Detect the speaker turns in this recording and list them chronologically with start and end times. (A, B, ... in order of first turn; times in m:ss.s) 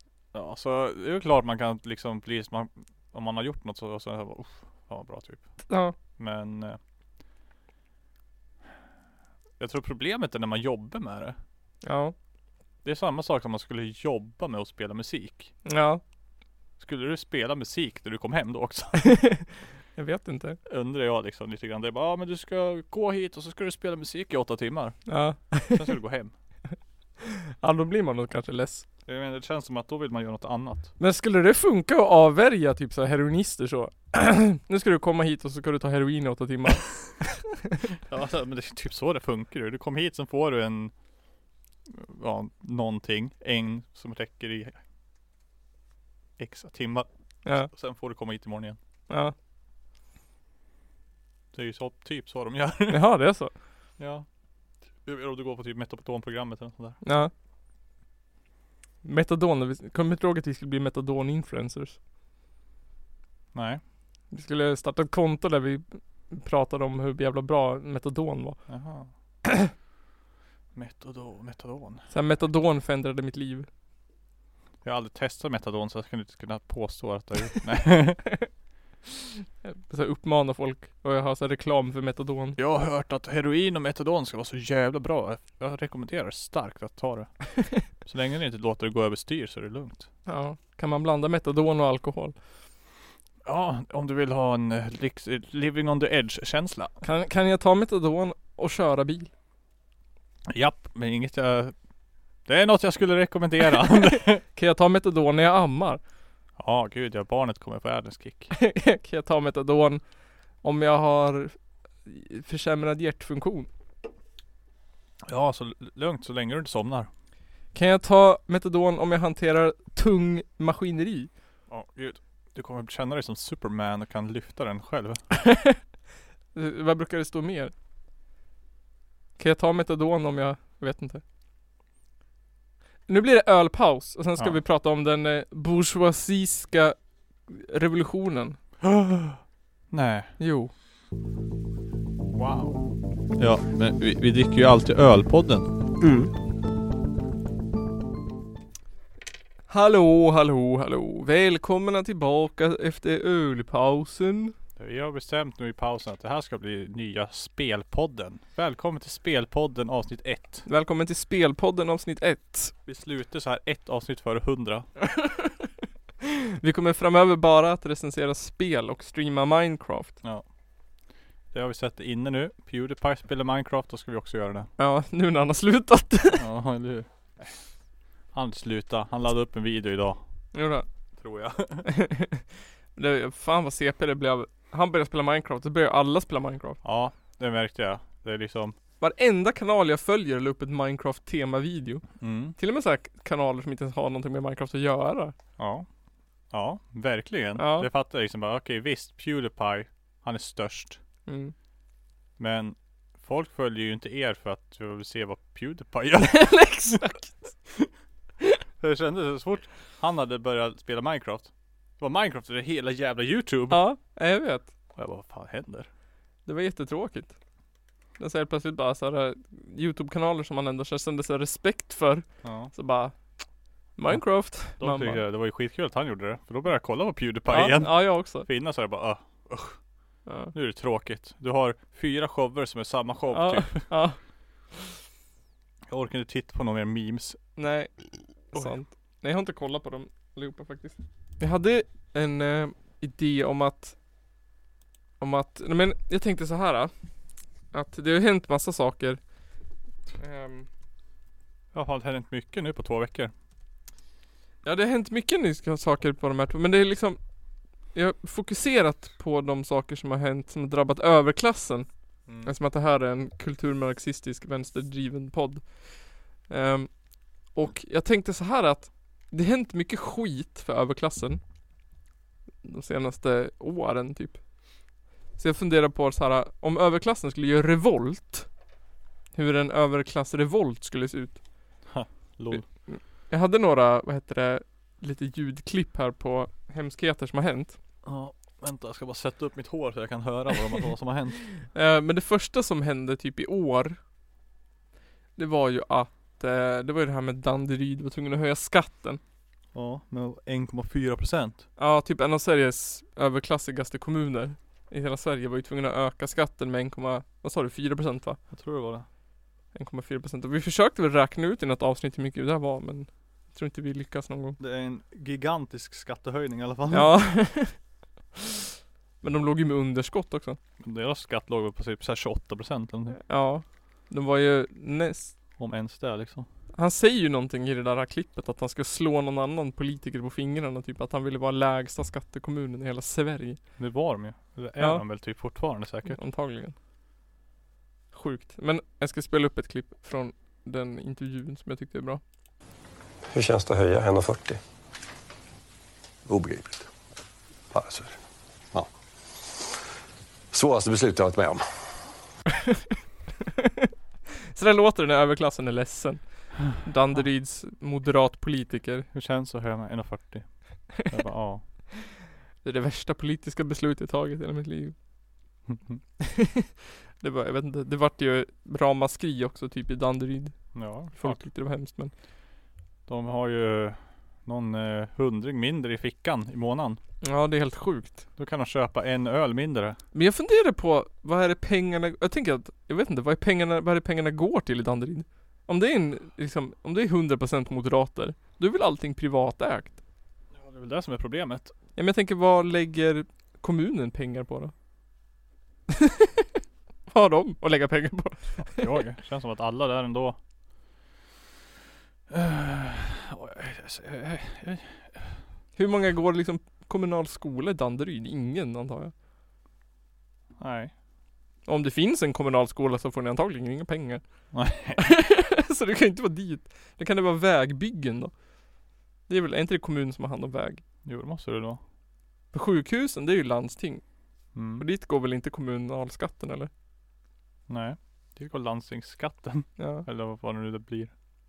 0:00.3-0:05.6 A
0:05.7-0:05.9 B
0:06.2-0:06.8 A
0:09.6-0:11.4 A
0:11.8-0:12.1 B
0:12.8-0:15.5 A
0:15.6-0:16.0 B
0:16.8-0:19.2 A
0:19.1-0:20.6 B
0:20.6-0:26.3 A
0:25.1-0:25.9 B
0:27.6-0:28.8 B
0:29.0-0:30.9 A
0:31.0-0:37.6 B
0:38.1-0:40.9 A
0:41.9-0:44.8 A
0:46.4-0:48.8 A
0:47.4-0:47.7 B
0:49.1-0:49.3 B
0:51.5-0:53.0 A
0:52.9-0:53.5 B
0:54.0-0:54.2 A
0:55.0-0:57.0 A
0:57.0-0:57.3 B
0:59.0-1:02.0 B
1:03.5-1:03.8 A
1:04.3-1:08.6 B
1:08.7-1:09.1 A
1:10.7-1:12.1 A
1:12.1-1:13.7 B
1:14.8-1:18.3 A
1:19.6-1:22.6 B
1:22.6-1:30.1 A
1:30.2-1:32.4 B
1:33.4-1:37.0 A
1:37.0-1:39.3 B
1:40.5-1:41.7 A
1:42.4-1:44.4 A
1:44.5-1:46.0 B
1:46.6-1:48.5 A
1:48.5-1:50.0 B
1:50.6-1:53.7 B
1:55.2-1:57.1 A
1:57.7-2:01.3 B
2:01.7-2:05.3 A
2:05.5-2:05.8 B
2:06.5-2:07.7 B
2:09.4-2:11.2 B
2:13.1-2:17.0 B
2:17.5-2:18.6 B
2:18.8-2:19.4 A
2:19.9-2:20.4 A
2:20.4-2:20.7 B
2:22.3-2:22.8 A
2:23.4-2:25.8 A
2:29.7-2:34.5 B
2:34.8-2:40.6 A
2:40.6-2:42.7 B
2:42.8-2:44.9 A
2:45.2-2:45.5 B
2:46.6-2:50.2 B
2:51.5-2:54.7 A
2:54.8-2:56.4 B
2:56.3-2:57.6 A
2:58.3-3:00.2 A
3:00.5-3:00.9 B
3:01.2-3:01.8 A
3:01.8-3:02.4 B
3:02.9-3:06.8 B
3:06.8-3:08.8 A
3:09.0-3:12.0 B
3:12.2-3:12.6 A
3:12.6-3:15.3 B
3:15.6-3:15.8 A
3:16.5-3:21.0 A
3:17.6-3:17.9 B
3:21.2-3:21.5 B
3:22.4-3:27.1 A
3:26.3-3:27.5 B
3:28.8-3:33.8 A
3:33.7-3:34.7 B
3:35.0-3:35.9 A
3:36.4-3:37.3 B
3:38.2-3:43.1 B
3:42.4-3:42.7 A
3:43.9-3:45.2 B
3:44.1-3:49.8 A
3:47.5-3:48.5 B
3:50.2-3:50.5 B
3:50.5-3:53.9 A
3:53.3-3:54.2 B
3:55.9-3:57.4 A
3:57.6-4:04.0 B
4:05.2-4:06.9 B
4:07.7-4:09.2 B
4:10.2-4:10.7 B
4:11.7-4:13.3 A
4:14.6-4:17.2 B
4:17.9-4:21.9 B
4:22.3-4:22.5 A
4:22.4-4:31.4 B
4:32.6-4:34.4 B
4:35.4-4:38.5 B
4:39.3-4:41.4 B
4:41.8-4:42.7 A
4:42.5-4:47.8 B
4:48.0-4:51.4 A
4:51.7-4:54.0 B
4:55.4-4:59.2 B
4:59.7-5:01.6 A
5:01.8-5:08.4 B
5:08.5-5:09.0 A
5:09.7-5:14.6 B
5:14.6-5:17.1 A
5:16.9-5:17.8 B
5:19.2-5:20.6 B
5:20.8-5:23.2 A
5:23.2-5:25.3 B
5:25.6-5:26.5 A
5:26.7-5:33.6 B
5:33.8-5:36.2 A
5:34.8-5:35.0 B
5:36.1-5:36.7 B
5:38.1-5:42.2 B
5:43.3-5:44.6 C
5:46.2-5:46.9 C
5:47.7-5:48.2 C
5:50.5-5:51.6 C
5:53.6-5:53.9 B
5:54.5-5:59.1 B
5:59.1-6:01.6 A
6:02.6-6:04.9 B
6:05.7-6:06.0 A
6:06.2-6:06.7 B
6:07.2-6:12.1 B
6:10.7-6:11.4 A
6:13.0-6:17.0 A
6:17.2-6:18.2 B
6:18.4-6:20.0 A
6:20.1-6:30.0 B
6:30.5-6:31.7 A
6:32.0-6:34.7 B
6:37.1-6:38.8 B
6:38.7-6:40.4 A
6:42.3-6:45.4 A
6:45.8-6:49.1 B
6:50.6-6:50.9 A
6:51.6-6:54.2 B
6:54.5-6:55.1 A
6:55.0-6:58.3 B
6:59.3-7:00.8 B
7:01.0-7:01.8 A
7:02.5-7:04.0 B
7:04.5-7:04.8 A
7:04.8-7:06.7 B
7:07.7-7:11.1 A
7:09.8-7:10.0 B